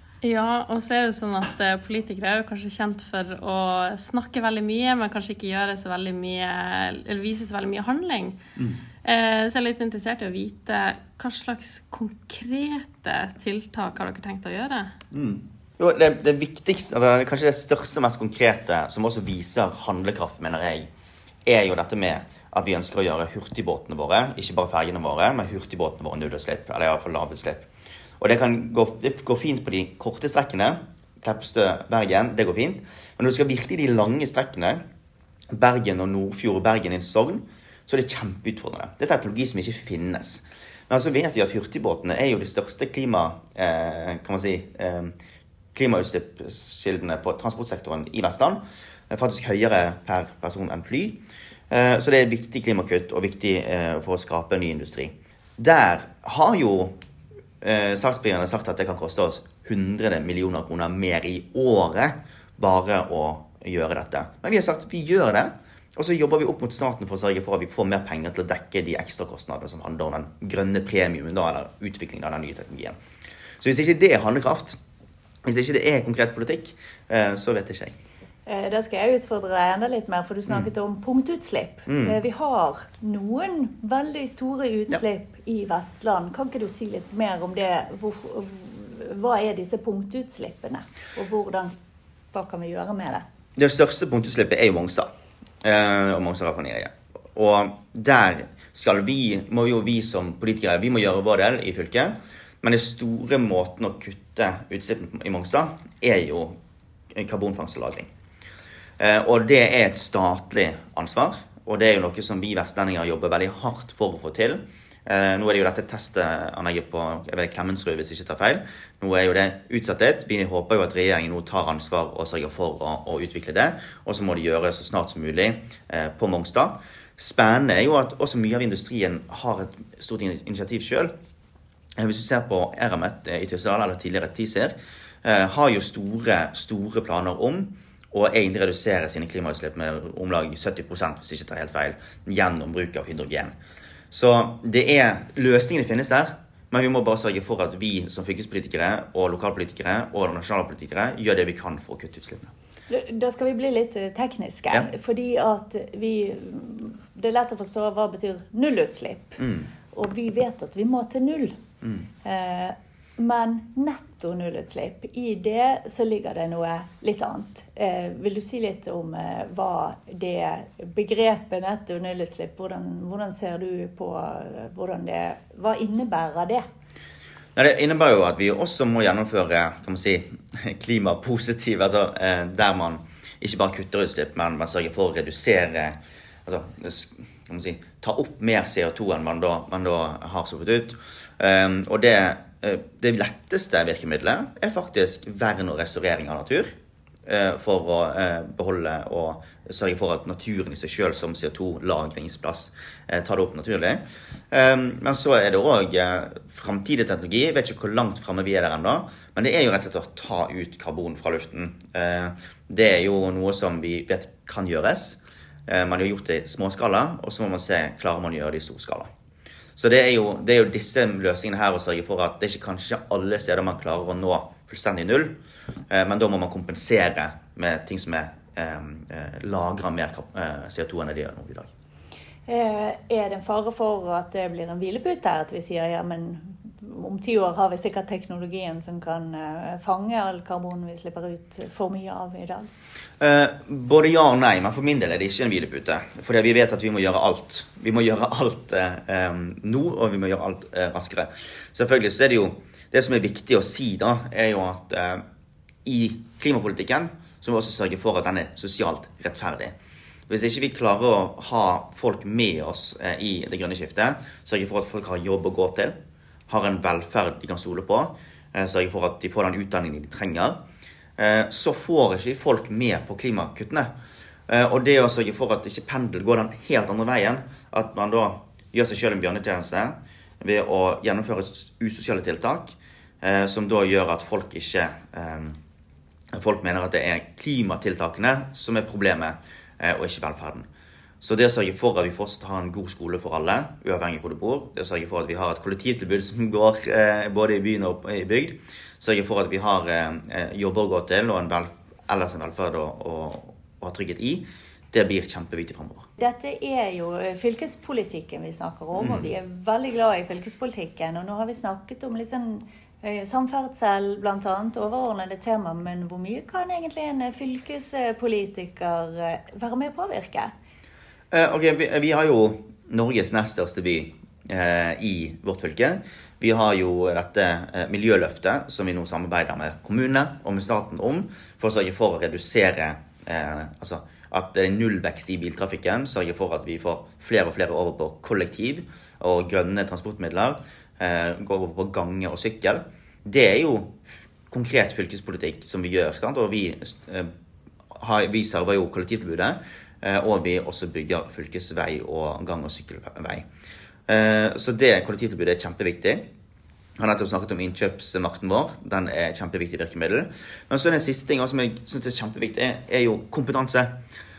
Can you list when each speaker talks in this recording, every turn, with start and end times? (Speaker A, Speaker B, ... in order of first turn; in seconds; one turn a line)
Speaker A: 0.2-8.4
Speaker A: 9.0-14.9
Speaker B: 15.1-20.9
Speaker B: 21.5-27.7
Speaker B: 28.2-34.8
Speaker B: 35.5-45.1
Speaker B: 45.7-57.0
Speaker B: 57.6-73.0
Speaker B: 73.6-74.8
Speaker B: 75.5-77.9
Speaker C: 78.5-91.7
Speaker B: 81.9-82.2
Speaker C: 92.3-93.2
Speaker B: 93.6-95.1
Speaker B: 95.6-106.6
Speaker B: 107.1-108.1
Speaker B: 109.0-131.1
Speaker B: 132.0-143.5
Speaker B: 144.1-152.5
Speaker C: 152.9-161.6
Speaker B: 159.4-159.7
Speaker C: 162.2-176.7
Speaker B: 177.6-196.7
Speaker B: 197.3-219.1
Speaker B: 219.8-225.3
Speaker B: 225.9-231.7
Speaker C: 232.5-242.7
Speaker B: 243.2-255.2
Speaker B: 255.8-259.8
Speaker B: 260.3-266.0
Speaker B: 266.5-270.6
Speaker B: 271.2-273.9
Speaker B: 274.5-285.6
Speaker B: 286.3-290.7
Speaker B: 291.2-306.1
Speaker C: 306.2-320.5
Speaker B: 309.0-309.3
Speaker B: 321.3-347.3
Speaker B: 347.9-353.4
Speaker B: 354.1-356.3
Speaker B: 357.0-363.9